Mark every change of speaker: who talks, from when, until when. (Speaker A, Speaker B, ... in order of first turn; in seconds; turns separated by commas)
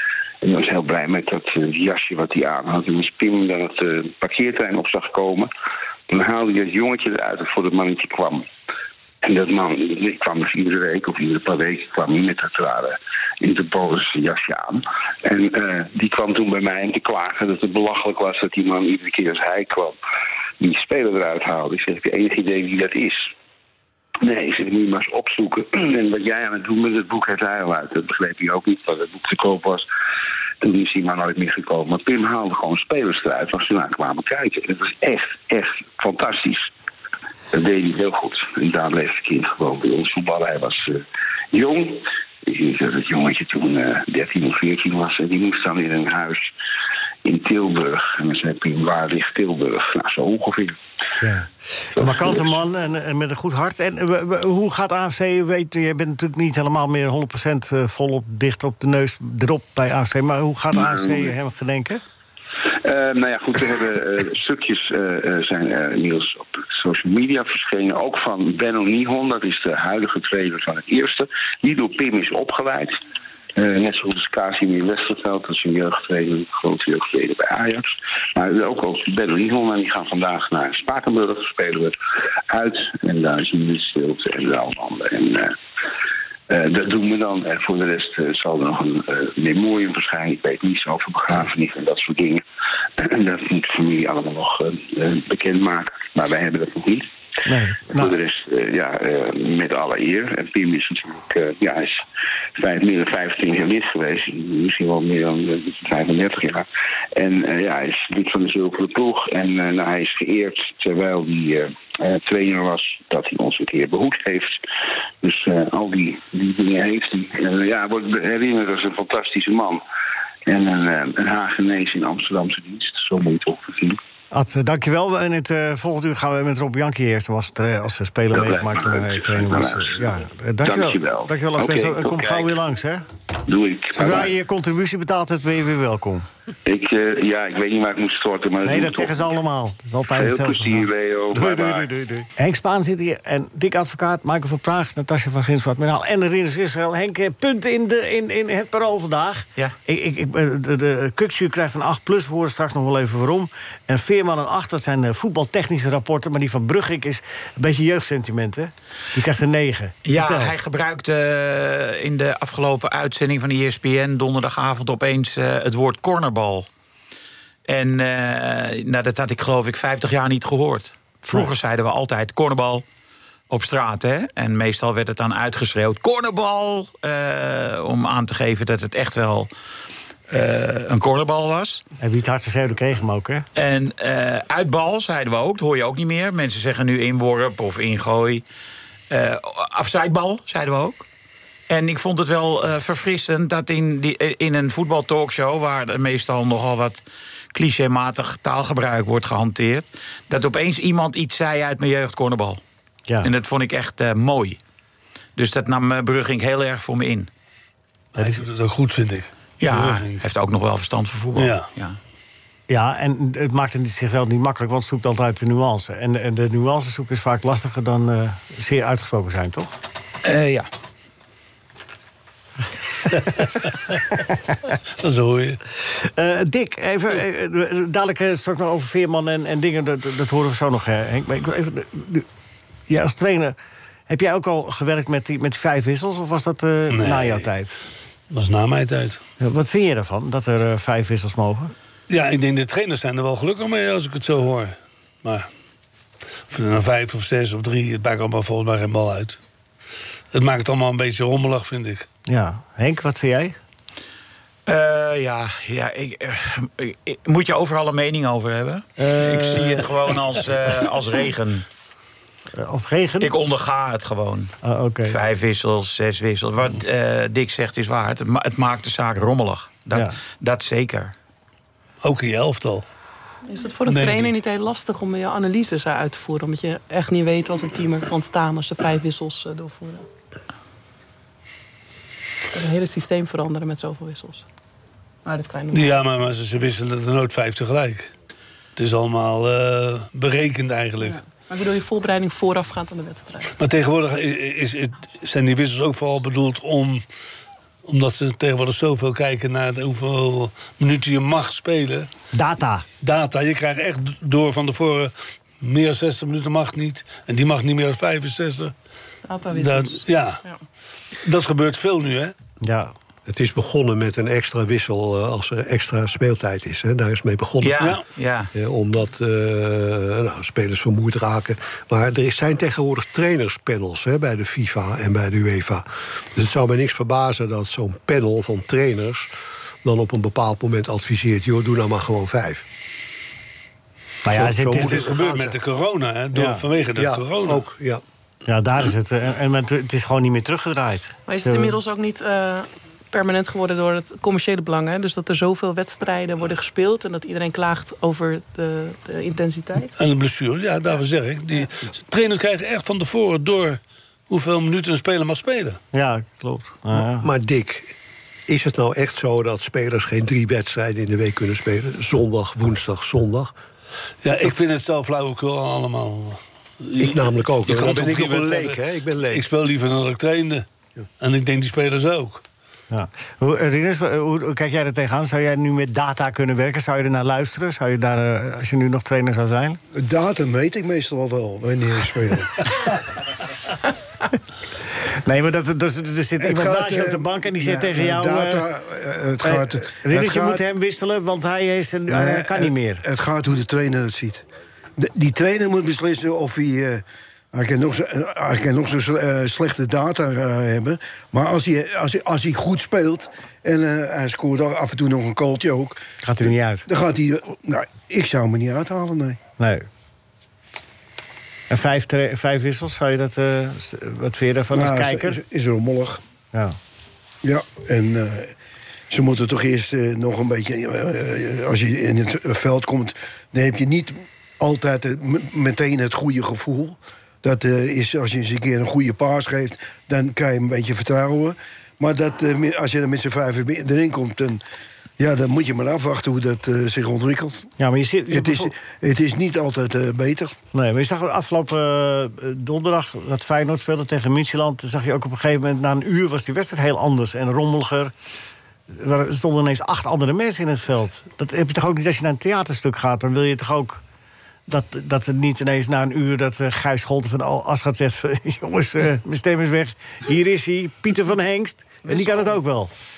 Speaker A: 0.4-5.5, Speaker A: 6.1-8.5, Speaker A: 9.2-20.0, Speaker A: 20.6-23.3, Speaker A: 24.2-29.9, Speaker A: 30.6-36.7, Speaker A: 37.5-41.0, Speaker A: 41.5-46.5, Speaker A: 47.2-50.8, Speaker B: 51.2-62.0, Speaker A: 52.0-52.3, Speaker A: 60.8-61.3, Speaker A: 62.7-73.0, Speaker A: 73.6-82.0, Speaker A: 82.5-85.5, Speaker A: 86.5-92.4, Speaker A: 93.0-97.1, Speaker B: 97.5-98.2, Speaker A: 97.9-102.0, Speaker A: 102.6-114.6, Speaker A: 115.2-119.8, Speaker A: 120.5-124.0, Speaker B: 124.3-133.1, Speaker A: 128.3-130.1, Speaker A: 130.6-132.5, Speaker A: 133.5-134.3, Speaker B: 133.9-136.3, Speaker A: 136.7-139.2, Speaker B: 138.6-160.6, Speaker A: 140.1-141.9, Speaker C: 160.1-166.7, Speaker C: 167.7-172.8, Speaker C: 173.5-179.5, Speaker C: 180.3-181.8, Speaker B: 182.0-183.4, Speaker C: 183.6-188.4, Speaker C: 189.1-191.1, Speaker C: 191.7-202.6, Speaker C: 203.2-204.6, Speaker C: 205.4-207.3, Speaker D: 208.2-210.3, Speaker C: 209.6-212.0, Speaker D: 211.4-211.7, Speaker B: 212.7-219.8, Speaker C: 220.2-220.7, Speaker D: 223.1-224.0, Speaker D: 225.0-225.6, Speaker B: 225.9-232.3, Speaker B: 232.9-233.6, Speaker B: 234.1-237.8, Speaker D: 236.9-237.5, Speaker D: 238.3-239.2, Speaker B: 239.4-241.7, Speaker D: 242.1-245.5, Speaker D: 246.5-249.4, Speaker D: 250.3-252.1, Speaker B: 252.3-253.6, Speaker C: 254.7-261.6, Speaker B: 259.0-260.4, Speaker B: 262.5-263.3, Speaker C: 263.2-264.5, Speaker B: 264.6-265.2, Speaker C: 265.1-271.1, Speaker B: 269.9-270.2, Speaker D: 272.0-272.9, Speaker E: 273.5-280.1, Speaker D: 273.9-274.3, Speaker E: 282.5-284.4, Speaker E: 285.2-286.0, Speaker D: 285.7-288.1, Speaker D: 288.8-291.2, Speaker E: 291.0-293.5, Speaker D: 293.6-297.0, Speaker D: 297.9-302.1, Speaker B: 302.3-302.9, Speaker D: 303.0-308.7, Speaker E: 309.2-310.6, Speaker D: 309.5-310.4, Speaker D: 311.2-312.3, Speaker B: 312.6-312.9, Speaker F: 313.3-318.0, Speaker C: 317.6-318.5, Speaker F: 318.5-329.3, Speaker F: 329.8-332.6, Speaker B: 334.2-335.1, Speaker F: 334.3-335.6, Speaker D: 334.7-337.6, Speaker B: 336.4-336.6, Speaker F: 337.0-338.0, Speaker B: 338.5-341.8, Speaker E: 341.3-349.9, Speaker D: 350.0-355.8, Speaker B: 355.9-357.3, Speaker F: 357.0-357.9, Speaker F: 358.5-363.5, Speaker D: 364.2-370.7, Speaker F: 367.0-369.5, Speaker D: 371.2-372.4, Speaker B: 372.9-379.8, Speaker G: 379.9-382.7, Speaker B: 385.0-388.6, Speaker G: 386.4-390.6, Speaker B: 389.4-393.1, Speaker G: 392.1-394.4, Speaker G: 395.0-409.4, Speaker B: 406.2-406.9, Speaker B: 409.6-409.9, Speaker B: 411.7-415.4, Speaker G: 414.7-416.2, Speaker G: 417.4-418.6, Speaker G: 419.1-434.6, Speaker G: 435.2-437.7, Speaker B: 437.8-438.7, Speaker G: 438.3-440.5, Speaker B: 440.7-448.1, Speaker B: 448.9-454.0, Speaker B: 454.7-462.9